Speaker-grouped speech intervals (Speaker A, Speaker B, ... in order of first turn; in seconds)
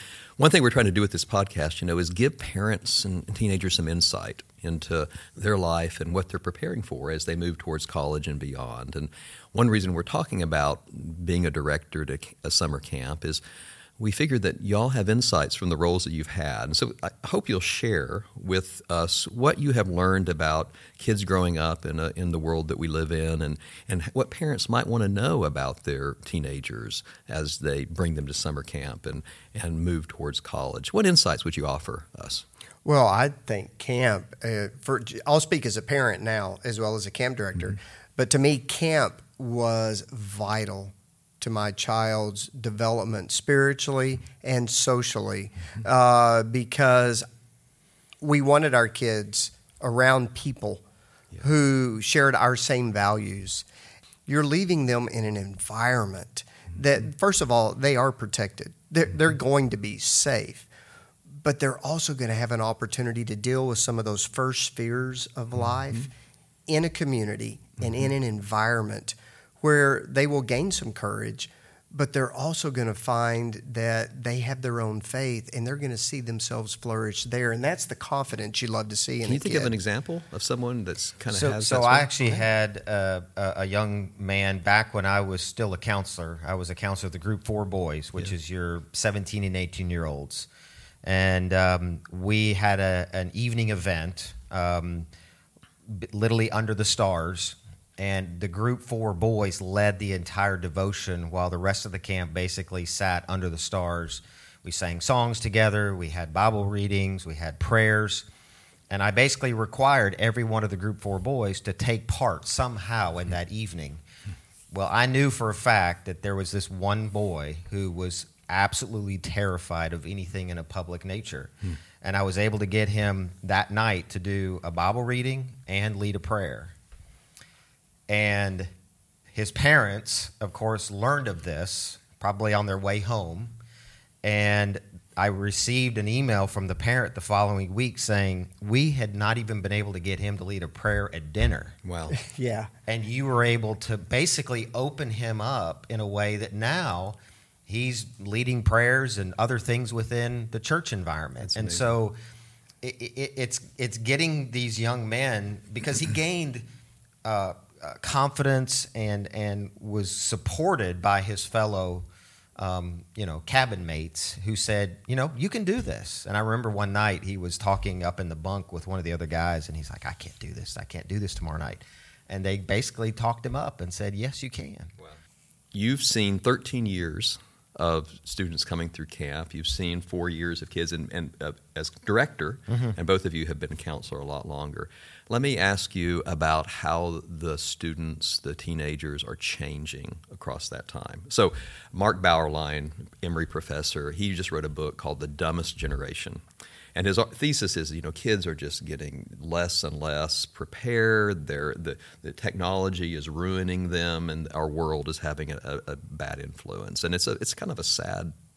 Speaker A: 0.4-13.4, 14.0-32.5, 79.2-82.4, 141.8-142.2, 151.4-152.0, 175.7-196.4, 196.9-208.3
Speaker B: 32.9-47.2, 48.2-50.8, 51.4-53.6, 54.3-60.7, 61.4-66.1, 66.7-79.7, 142.1-142.7
Speaker C: 81.3-90.5, 91.0-95.1, 95.9-108.3, 108.9-114.0, 114.7-126.7, 128.1-128.7, 129.3-133.5, 134.2-141.8, 142.9-152.2, 152.8-156.6, 157.2-162.1, 162.6-174.9